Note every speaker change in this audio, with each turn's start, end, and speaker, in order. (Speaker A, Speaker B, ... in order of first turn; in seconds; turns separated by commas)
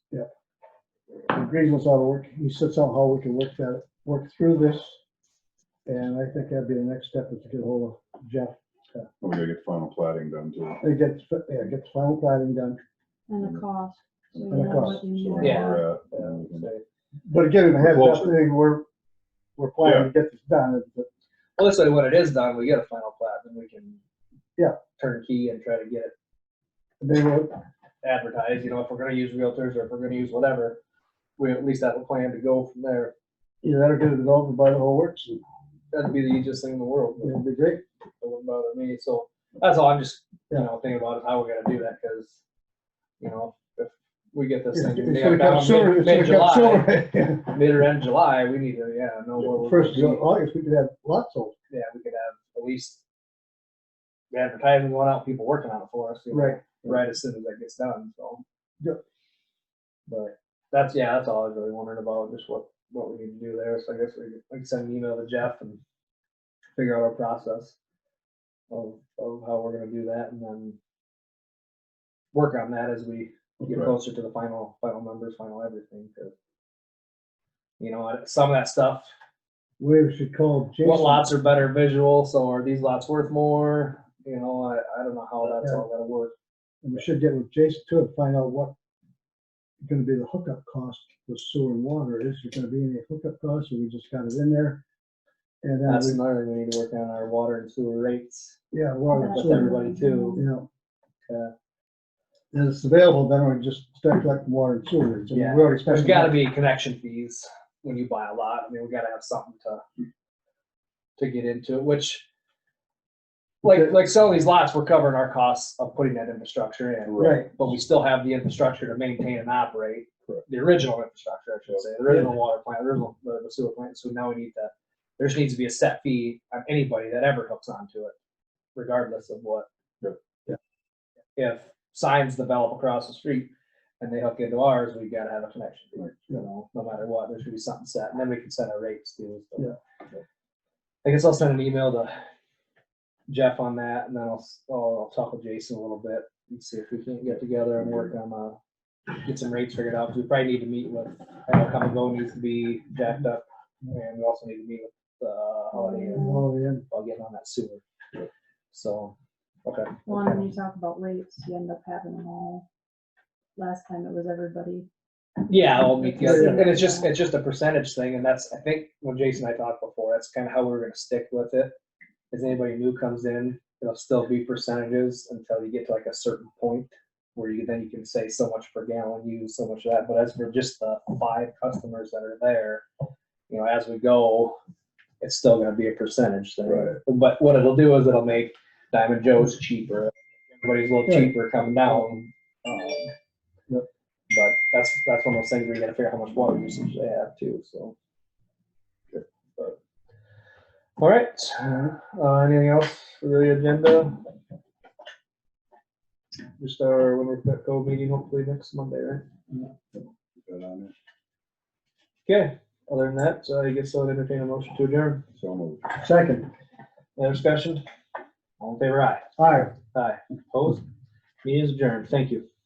Speaker A: 1.3-5.0, Speaker A: 5.8-9.0, Speaker B: 9.2-10.8, Speaker A: 10.8-12.8, Speaker C: 13.3-15.9, Speaker B: 13.4-13.6, Speaker B: 14.3-16.7, Speaker A: 14.5-15.0, Speaker D: 15.4-16.8, Speaker A: 17.3-18.8, Speaker B: 17.8-18.3, Speaker A: 19.6-21.1, Speaker B: 19.8-20.1, Speaker D: 21.6-24.0, Speaker D: 25.0-26.1, Speaker A: 27.0-27.6, Speaker D: 28.0-30.8, Speaker D: 31.4-33.1, Speaker A: 33.6-35.4, Speaker D: 35.9-37.4, Speaker A: 37.2-37.8, Speaker D: 38.2-42.4, Speaker D: 43.2-50.2, Speaker A: 44.7-47.5, Speaker A: 49.4-51.5, Speaker D: 51.7-53.0, Speaker D: 54.3-58.4, Speaker A: 56.3-57.0, Speaker D: 60.1-65.8, Speaker D: 66.8-67.8, Speaker D: 68.7-70.8, Speaker D: 72.3-76.3, Speaker D: 77.8-79.1, Speaker A: 79.8-81.3, Speaker D: 80.8-86.3, Speaker A: 85.6-85.8, Speaker A: 86.8-88.7, Speaker A: 89.8-94.8, Speaker A: 95.6-96.2, Speaker D: 95.8-98.6, Speaker A: 98.7-100.7, Speaker C: 99.1-100.4, Speaker D: 99.2-100.5, Speaker D: 101.2-101.5, Speaker A: 102.5-106.4, Speaker D: 105.3-109.8, Speaker D: 111.2-112.2, Speaker D: 113.6-128.1, Speaker B: 117.1-117.4, Speaker A: 117.2-117.5, Speaker D: 128.7-129.7, Speaker D: 131.3-139.8, Speaker D: 141.0-142.2, Speaker D: 143.3-148.6, Speaker D: 149.2-157.8, Speaker C: 155.7-156.5, Speaker A: 156.1-156.8, Speaker D: 158.7-159.1, Speaker D: 159.6-160.5, Speaker C: 160.1-162.6, Speaker C: 163.6-164.9, Speaker D: 165.4-171.7, Speaker C: 166.1-167.1, Speaker A: 166.2-166.8, Speaker D: 172.3-182.8, Speaker D: 183.5-184.6, Speaker D: 185.2-193.1, Speaker A: 191.1-191.3, Speaker D: 194.3-197.9, Speaker D: 199.1-199.8, Speaker D: 201.0-204.2, Speaker D: 206.6-209.2, Speaker B: 210.0-210.9, Speaker D: 212.2-215.2, Speaker B: 215.3-215.9, Speaker A: 216.0-216.5, Speaker D: 217.2-217.8, Speaker D: 218.6-219.2, Speaker A: 219.4-219.7, Speaker D: 219.9-220.8, Speaker D: 221.4-222.4